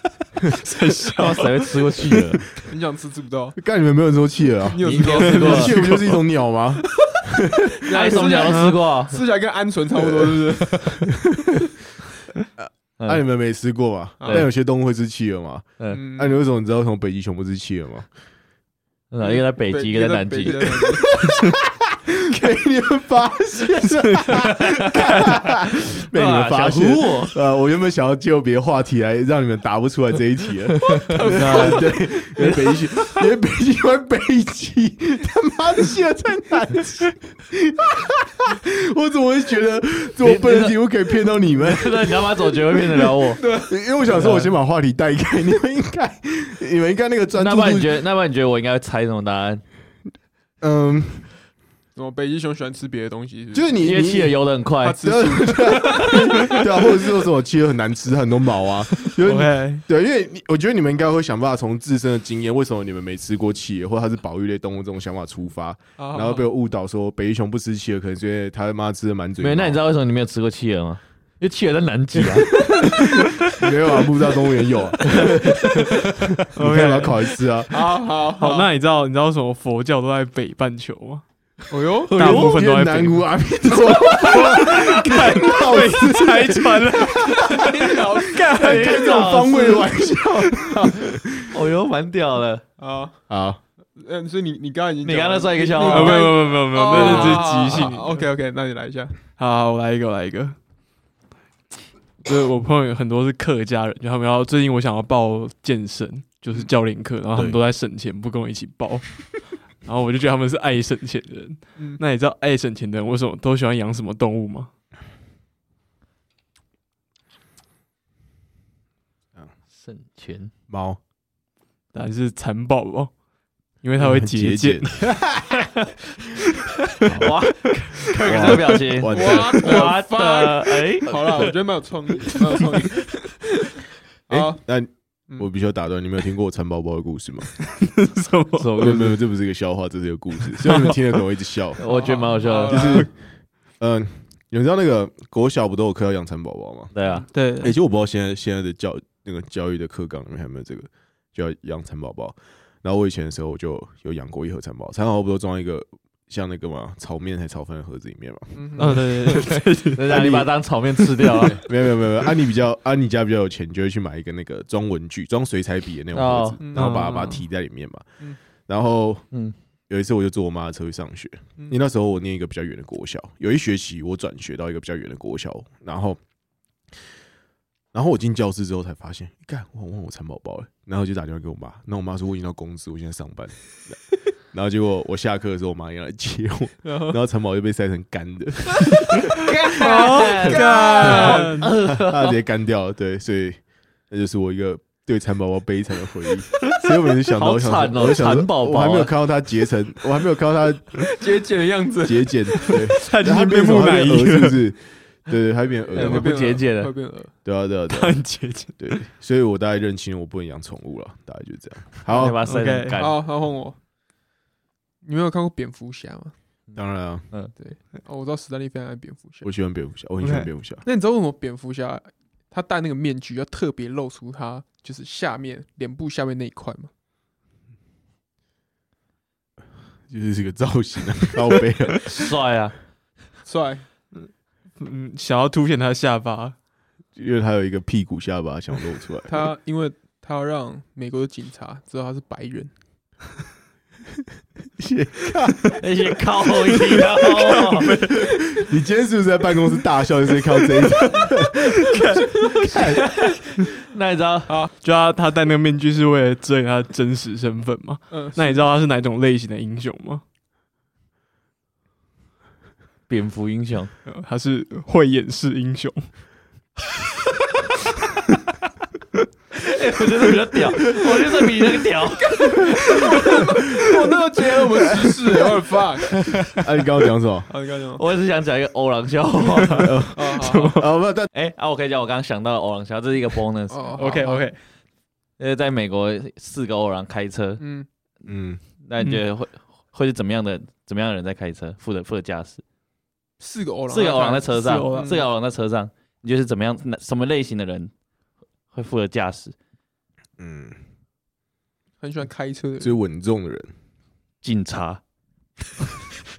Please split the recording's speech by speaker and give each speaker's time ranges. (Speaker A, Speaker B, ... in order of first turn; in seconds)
Speaker A: 0.5-1.8, 5.7-6.2, 8.5-8.8, 23.9-25.4, 31.4-31.8, 59.2-59.8, 76.5-77.4, 78.4-81.2, 82.1-83.3, 84.5-87.7, 95.8-98.2, 99.3-100.6, 102.2-114.7, 121.9-123.1, 123.8-125.2, 137.8-138.9, 140.6-141.0, 147.3-147.8, 158.8-160.2, 166.8-167.4, 189.8-191.8, 202.7-204.6, 207.9-209.0, 212.3-213.0, 220.2-220.5, 234.8-236.6, 247.3-248.3, 251.6-252.8, 254.8-260.2, 264.1-266.1, 279.5-280.9, 284.0-284.6, 294.4-295.2
Speaker B: 1.2-2.4, 4.8-5.8, 7.9-9.2, 13.0-13.2, 14.2-14.5, 19.1-20.8, 26.1-27.4, 31.0-32.9, 40.2-40.8, 41.5-43.4, 44.0-44.5, 47.3-49.6, 53.8-55.0, 55.8-56.3, 69.4-72.8, 75.1-76.1, 82.2-82.6, 83.9-84.4, 88.4-89.9, 91.5-92.6, 95.0-96.3, 119.8-120.5, 127.0-131.5, 138.6-139.2, 141.8-143.1, 146.9-147.2, 159.9-161.6, 166.1-166.6, 189.4-192.4, 197.3-199.1, 205.9-206.9, 212.1-213.1, 216.7-217.5, 232.1-232.8, 245.8-247.9, 252.8-254.6, 263.1-263.9, 269.5-272.9, 277.9-279.9, 281.3-283.9, 285.4-287.6, 288.8-292.6, 293.9-297.9, 298.7-299.6, 304.4-305.0
Speaker C: 2.7-3.6, 4.7-5.8, 7.8-10.9, 14.2-14.4, 15.9-16.4, 19.2-21.1, 31.1-31.9, 43.3-43.7, 51.9-53.9, 54.8-56.2, 66.0-66.5, 77.7-78.7, 81.7-82.3, 84.1-84.4, 87.6-88.4, 92.8-93.2, 94.0-99.2, 129.1-133.7, 134.3-134.6, 141.8-143.1, 158.6-159.0, 166.6-166.9, 186.8-187.2, 189.8-191.4, 201.0-202.7, 205.9-207.3, 213.0-213.8, 215.0-216.3, 217.5-219.4, 220.8-226.9, 233.4-233.8, 239.3-242.7, 254.5-254.7, 258.1-258.5, 272.7-276.1, 277.5-278.1, 280.1-280.8, 283.7-284.5, 287.6-287.9, 293.4-295.2, 302.0-302.9
Speaker D: 3.6-8.4, 9.9-11.6, 12.6-18.1, 20.5-48.0, 50.6-51.3, 53.5-54.4, 55.0-69.8, 72.2-77.8, 82.2-91.5, 93.3-93.6, 107.3-107.6, 120.7-121.0, 124.0-125.5, 127.0-127.4, 128.2-129.9, 134.3-137.6, 138.8-141.8, 142.5-143.1, 143.8-146.9, 147.6-159.5, 160.1-160.6, 161.3-168.1, 168.7-169.2, 169.9-176.2, 177.9-184.0, 184.5-189.5, 191.8-201.1, 202.0-206.3, 207.4-208.2, 208.8-212.4, 216.8-217.3, 219.4-220.8, 230.1-232.3, 237.2-239.3, 244.8-245.8, 248.1-252.0, 252.7-253.0, 274.8-275.0, 276.6-277.5, 279.8-281.3, 288.3-288.6, 300.4-300.8, 302.8-303.7